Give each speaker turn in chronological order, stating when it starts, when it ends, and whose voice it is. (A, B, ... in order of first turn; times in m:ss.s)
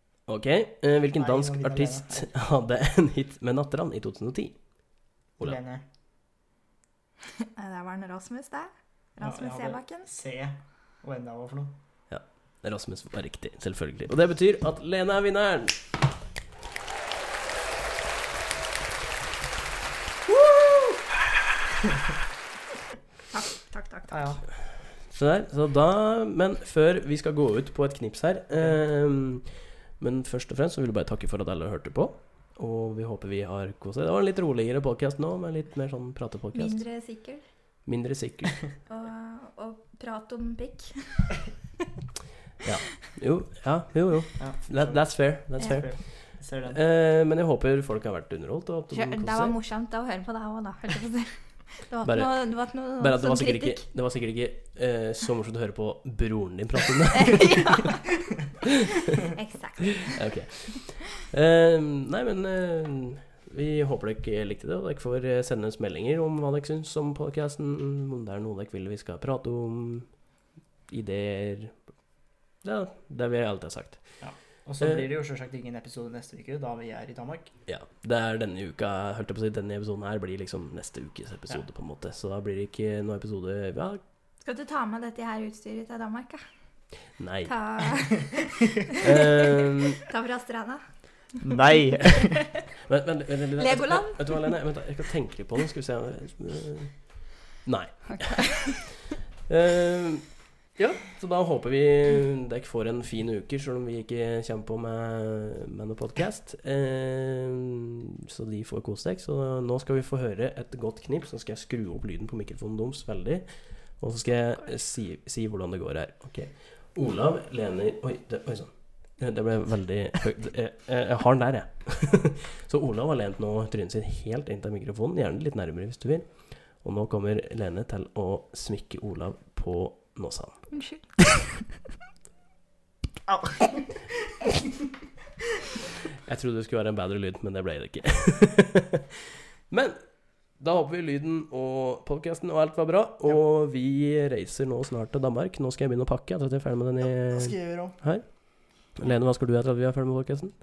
0:00.3-0:04.6 A
0:01.2-0:02.3 B
0:05.4-0:05.8 B
0:07.4-0:10.1 C
0:09.2-0:11.7 B
0:12.1-0:15.8 A
0:23.3-0:24.4 C
0:24.1-0:24.4 B
0:25.0-0:36.8 A
0:36.5-0:37.4 C
0:37.9-0:38.6 A
0:38.9-0:41.4 C
0:42.6-0:46.0 A
0:44.4-0:46.8 B
0:46.7-0:49.6 A
0:48.9-0:53.8 C
0:52.0-0:52.4 A
0:53.0-0:57.9 A
0:57.1-0:58.2 C
0:59.0-1:00.2 C
1:00.0-1:10.1 A
1:10.9-1:11.8 A
1:12.6-1:14.0 A
1:14.2-1:17.5 B
1:17.7-1:24.0 A
1:24.4-1:26.4 C
1:27.2-1:27.5 A
1:27.5-1:30.9 C
1:29.0-1:30.0 A
1:31.4-1:32.4 B
1:32.8-1:37.0 A
1:33.6-1:34.6 C
1:37.6-1:38.6 A
1:38.1-1:39.0 C
1:39.5-1:53.5 A
1:54.0-2:06.3 A
2:06.8-2:10.7 A
2:10.7-2:11.7 C
2:13.3-2:13.9 B
2:16.2-2:30.5 A
2:27.2-2:28.0 B